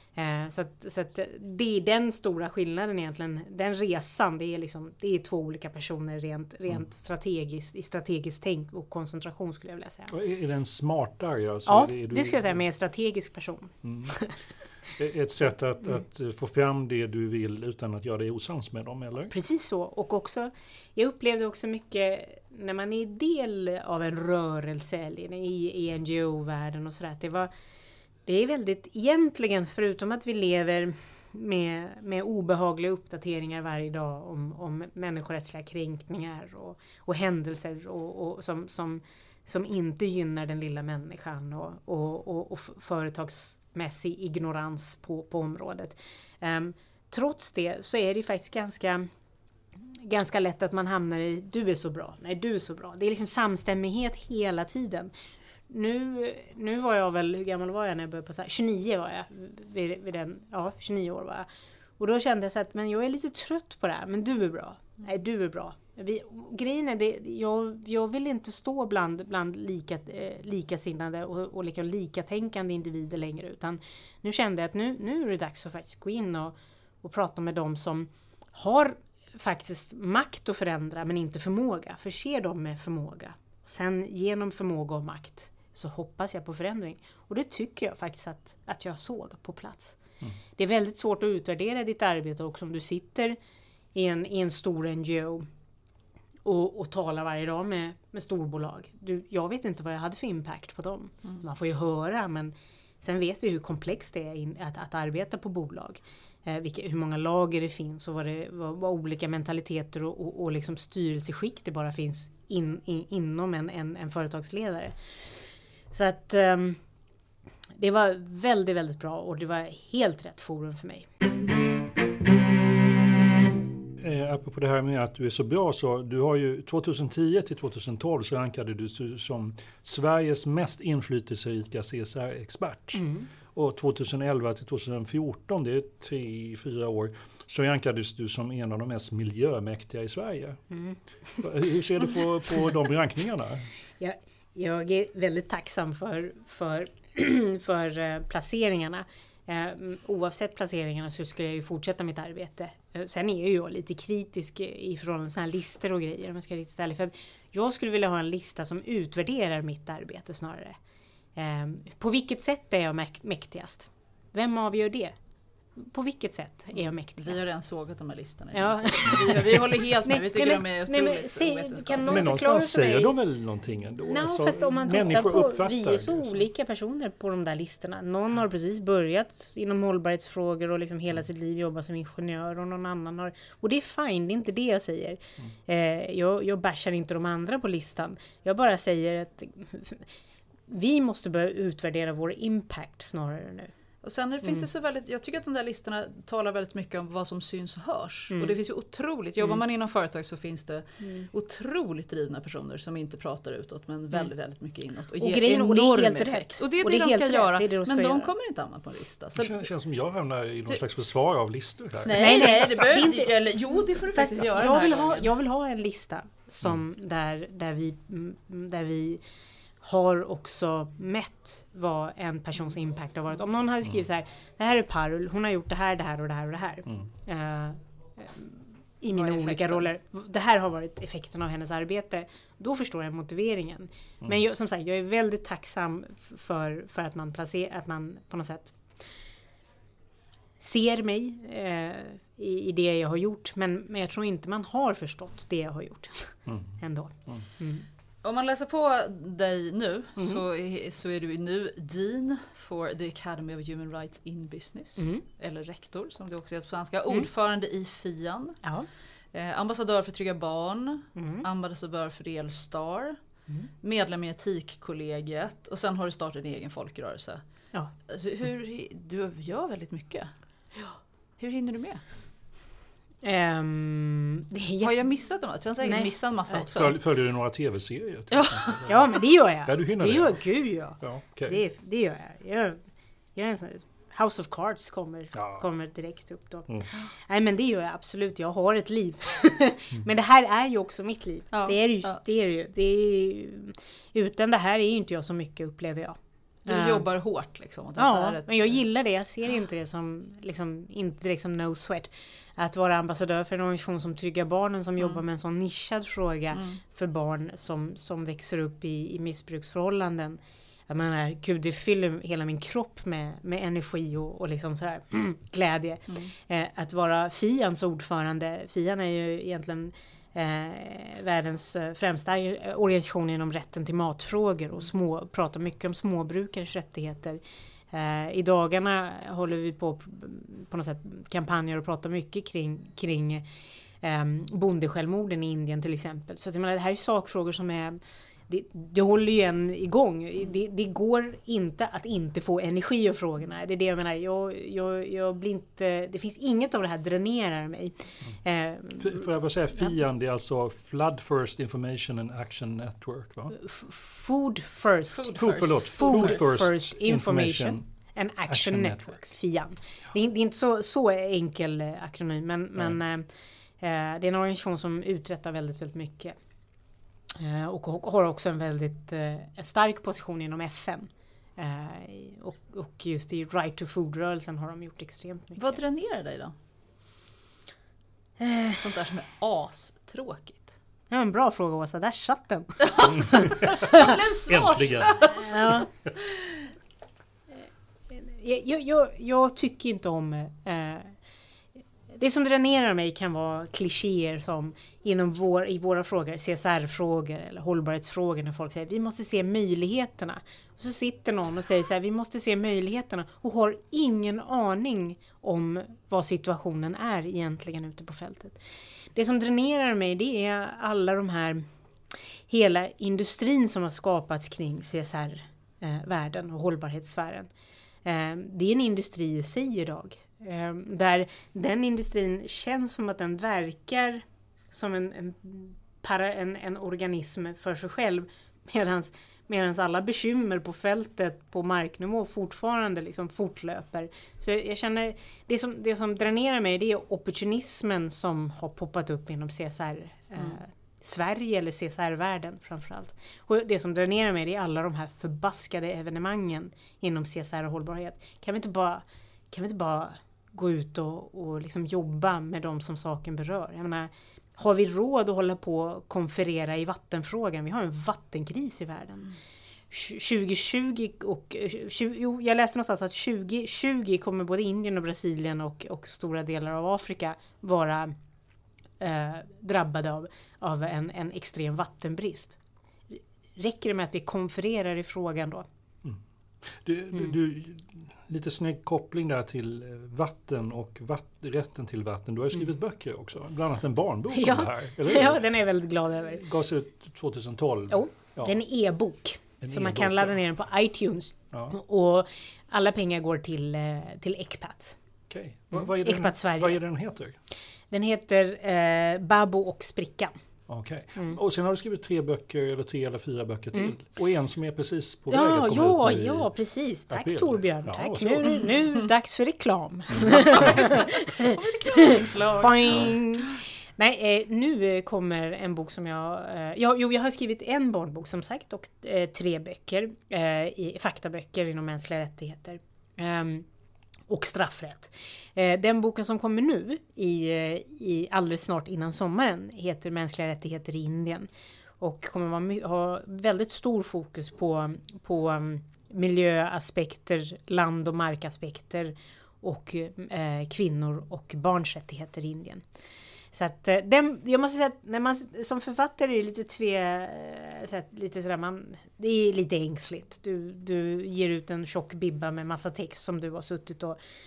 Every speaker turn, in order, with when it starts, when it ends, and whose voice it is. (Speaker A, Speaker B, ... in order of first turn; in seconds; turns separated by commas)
Speaker A: 0.1-10.1, Speaker B: 10.1-12.6, Speaker A: 11.7-14.3, Speaker B: 13.8-14.1, Speaker B: 14.9-19.3, Speaker A: 19.3-27.5, Speaker A: 28.2-49.1, Speaker A: 50.0-55.1, Speaker A: 55.7-61.5, Speaker A: 62.0-90.0, Speaker A: 90.6-93.4, Speaker A: 93.9-95.5, Speaker A: 96.4-115.0, Speaker A: 115.9-116.8, Speaker A: 117.8-121.1, Speaker B: 124.0-140.6, Speaker A: 132.9-133.3, Speaker A: 140.7-141.4, Speaker B: 141.4-143.7, Speaker A: 144.0-160.8, Speaker A: 161.4-165.1, Speaker A: 165.8-167.4, Speaker C: 167.2-172.3, Speaker A: 168.5-173.2, Speaker B: 172.1-176.4, Speaker A: 174.1-190.1, Speaker A: 190.7-193.7, Speaker C: 194.0-209.7, Speaker A: 198.3-198.6, Speaker A: 201.0-201.3, Speaker A: 205.2-208.3, Speaker B: 209.4-212.5, Speaker C: 212.0-215.3, Speaker A: 212.1-213.3, Speaker A: 214.1-219.2, Speaker A: 219.8-238.8, Speaker C: 229.1-229.9, Speaker A: 240.6-247.9, Speaker B: 246.5-246.8, Speaker C: 248.2-258.6, Speaker A: 255.0-255.2, Speaker C: 259.3-263.2, Speaker A: 261.1-261.4, Speaker C: 263.8-267.4, Speaker C: 268.1-270.3, Speaker C: 271.4-272.0, Speaker A: 273.2-274.9, Speaker C: 274.8-276.9, Speaker A: 275.8-276.1, Speaker B: 276.7-280.5, Speaker C: 278.3-278.8, Speaker A: 278.9-282.8, Speaker B: 281.0-281.6, Speaker A: 283.4-286.7, Speaker B: 285.3-285.6, Speaker A: 287.3-297.1, Speaker C: 291.5-292.2, Speaker C: 296.6-298.8, Speaker A: 298.0-327.4, Speaker C: 306.5-306.8, Speaker A: 327.9-333.4, Speaker A: 334.0-349.9, Speaker B: 349.0-353.6, Speaker A: 353.5-363.3, Speaker C: 355.1-356.4, Speaker B: 355.4-357.9, Speaker B: 358.5-359.2, Speaker A: 363.8-366.4, Speaker A: 367.4-375.8, Speaker C: 375.6-376.5, Speaker A: 378.4-378.8, Speaker C: 378.8-380.7, Speaker A: 381.1-384.0, Speaker C: 382.9-385.7, Speaker B: 383.0-383.9, Speaker B: 384.5-385.5, Speaker A: 385.4-385.9, Speaker A: 388.1-391.1, Speaker A: 392.1-408.6, Speaker A: 409.1-411.6, Speaker A: 412.5-417.5, Speaker A: 418.1-459.3, Speaker A: 459.9-468.1, Speaker A: 469.0-472.6, Speaker A: 473.1-475.7, Speaker B: 476.0-485.6, Speaker A: 484.3-486.4, Speaker B: 486.1-488.6, Speaker A: 487.9-495.0, Speaker B: 489.6-490.4, Speaker B: 495.3-497.4, Speaker A: 495.7-496.8, Speaker A: 497.9-500.3, Speaker B: 500.7-506.5, Speaker A: 501.1-501.4, Speaker A: 505.3-511.6, Speaker B: 507.1-508.7, Speaker B: 510.1-510.9, Speaker C: 510.5-510.9, Speaker C: 511.5-513.1, Speaker A: 512.1-523.6, Speaker B: 512.6-513.1, Speaker A: 524.3-531.5, Speaker A: 532.0-542.8, Speaker A: 543.5-554.2